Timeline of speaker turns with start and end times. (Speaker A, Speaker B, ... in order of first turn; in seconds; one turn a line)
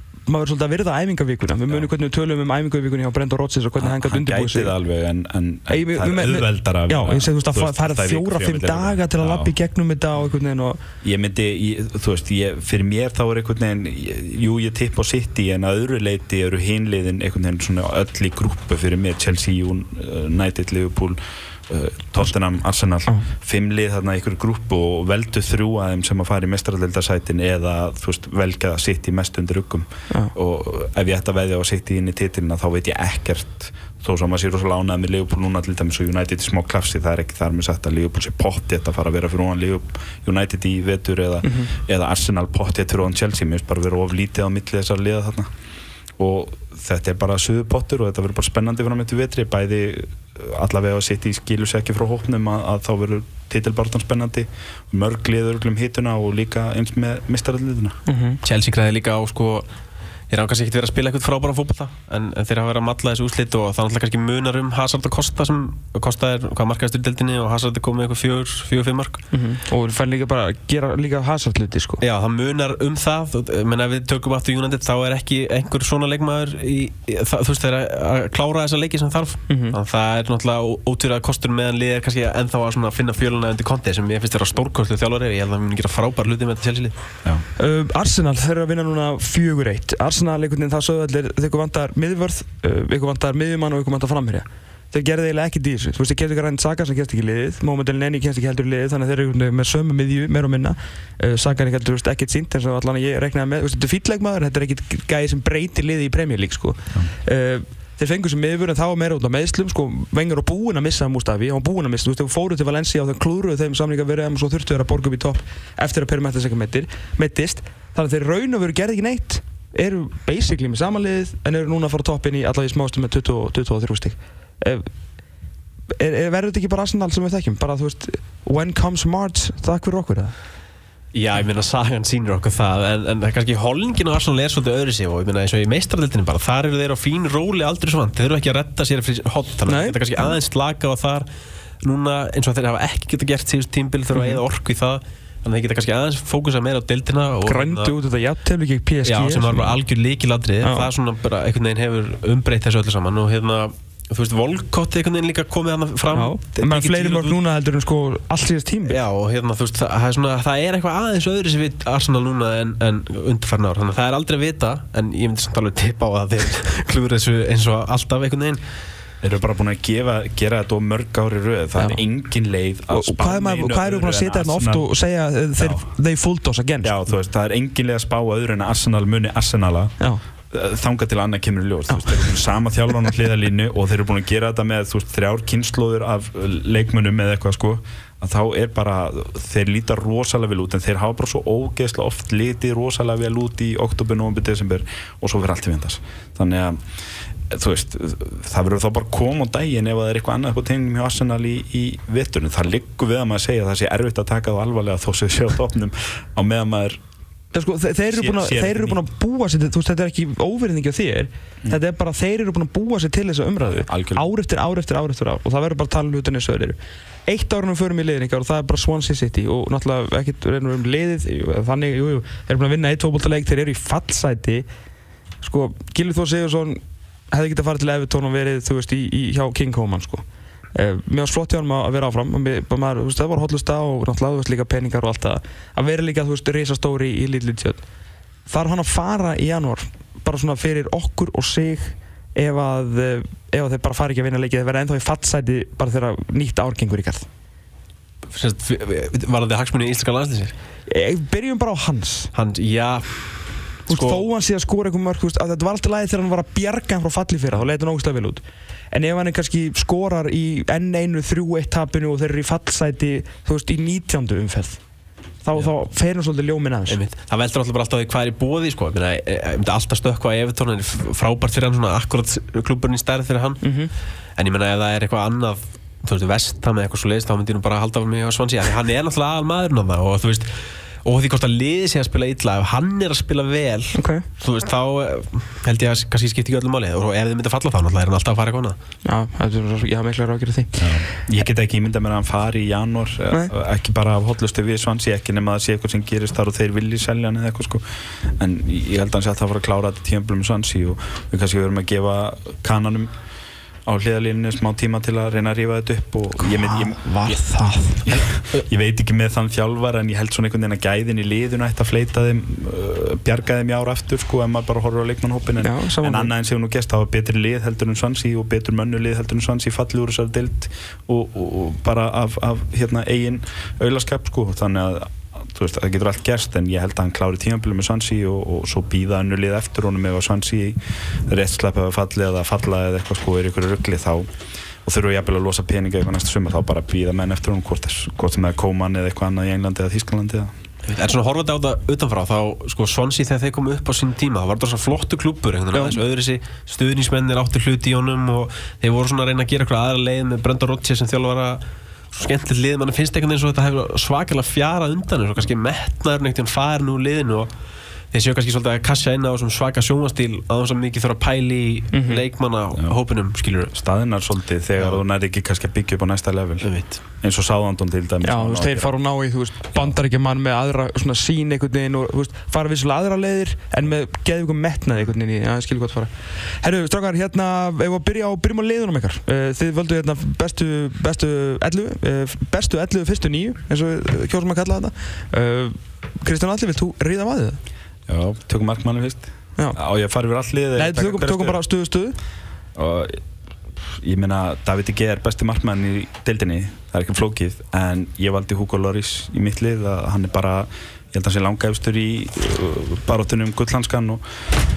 Speaker A: 0.2-4.7
Speaker B: 3.8-9.5
Speaker A: 5.7-10.8
Speaker B: 11.0-45.5
Speaker A: 41.4-41.7
Speaker B: 46.2-58.0
Speaker A: 58.1-58.4
Speaker C: 58.4-59.7
Speaker C: 60.3-69.2
Speaker A: 69.3-72.0
Speaker C: 72.0-87.0
Speaker A: 79.5-79.8
Speaker A: 87.6-124.9
Speaker A: 125.9-130.3
Speaker C: 131.1-141.3
Speaker A: 139.7-140.3
Speaker C: 141.8-147.9
Speaker A: 144.1-144.4
Speaker A: 147.4-149.8
Speaker C: 149.0-157.4
Speaker A: 150.6-150.9
Speaker A: 156.1-159.0
Speaker C: 158.9-168.6
Speaker B: 169.2-174.9
Speaker A: 172.9-177.0
Speaker B: 175.6-175.8
Speaker B: 176.8-179.9
Speaker B: 180.5-196.8
Speaker B: 197.5-207.0
Speaker A: 207.5-216.8
Speaker B: 208.1-209.0
Speaker B: 213.7-214.2
Speaker A: 217.3-224.7
Speaker A: 225.4-226.8
Speaker A: 227.3-230.2
Speaker A: 230.7-237.8
Speaker A: 238.5-247.2
Speaker C: 248.3-250.5
Speaker A: 250.9-252.3
Speaker C: 252.3-254.2
Speaker A: 253.9-264.8
Speaker A: 265.4-267.0
Speaker C: 266.9-273.6
Speaker A: 273.6-273.9
Speaker C: 274.4-280.5
Speaker C: 281.0-288.8
Speaker A: 283.9-284.2
Speaker A: 289.0-290.9
Speaker B: 290.8-303.1
Speaker B: 303.9-307.4
Speaker A: 306.6-308.1
Speaker B: 308.0-334.3
Speaker A: 315.6-316.3
Speaker B: 334.8-340.5
Speaker C: 340.9-357.5
Speaker C: 358.1-363.7
Speaker A: 361.9-362.2
Speaker B: 363.7-368.9
Speaker C: 366.6-367.0
Speaker A: 368.2-376.1
Speaker A: 376.6-387.6
Speaker B: 388.1-391.6
Speaker A: 390.8-392.1
Speaker B: 392.7-393.2
Speaker B: 393.8-404.2